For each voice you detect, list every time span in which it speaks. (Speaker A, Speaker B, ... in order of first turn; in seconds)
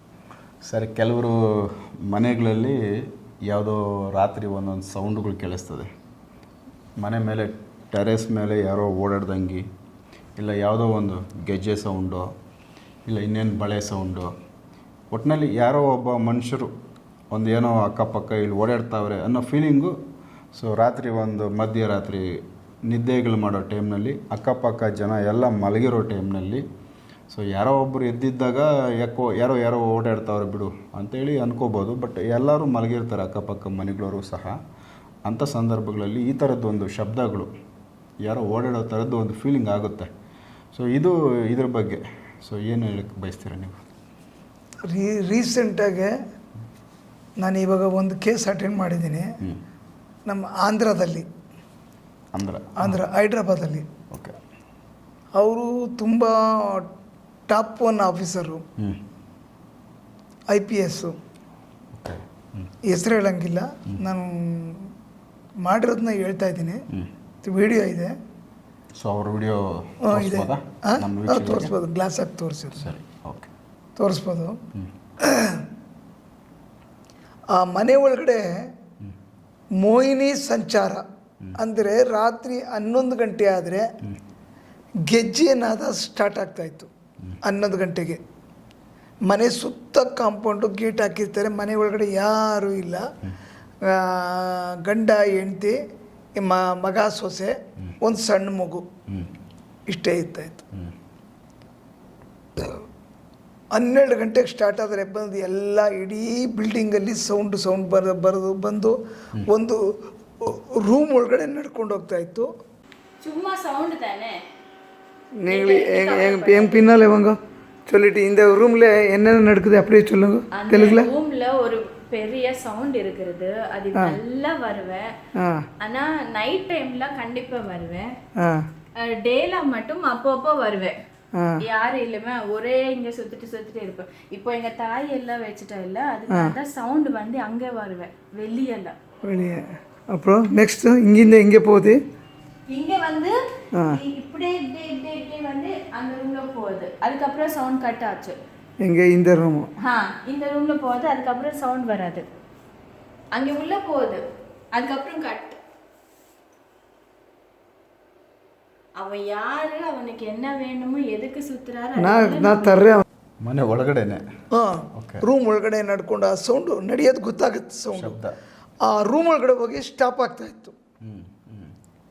Speaker A: 0.6-5.9, 7.0-9.7, 10.4-12.3, 13.1-14.3, 15.1-16.7, 17.3-20.0, 20.5-26.6, 27.3-34.5, 35.2-37.5, 38.2-40.1, 40.7-43.8, 52.3-53.0, 54.1-54.4, 61.9-62.7, 69.0-71.7, 72.8-73.5, 163.4-164.2, 164.9-165.2, 167.9-168.3, 171.0-171.7
Speaker B: 44.9-46.1, 47.4-49.3, 50.3-51.2, 52.8-53.9, 55.4-56.9, 57.5-58.6, 60.5-61.1, 62.9-64.9, 65.6-66.8, 67.4-68.1, 70.0-72.9, 74.0-74.6, 75.2-75.7, 77.5-78.5, 79.8-81.0, 81.6-83.9, 85.1-86.9, 87.4-88.2, 89.3-93.1, 93.8-95.8, 96.3-98.9, 99.9-100.6, 103.7-112.5, 115.4-121.1, 125.4-125.7, 128.4-128.7, 131.3-131.6, 136.3-136.6, 139.2-142.0, 143.7-144.0, 148.8-149.7, 162.0-163.0, 164.5-168.2, 168.8-170.7
Speaker C: 113.2-114.4, 115.5-117.0, 120.5-125.1, 125.8-128.1, 129.0-130.9, 131.6-138.9, 142.7-148.4, 149.8-152.2, 153.3-154.2, 154.7-155.6, 158.9-162.9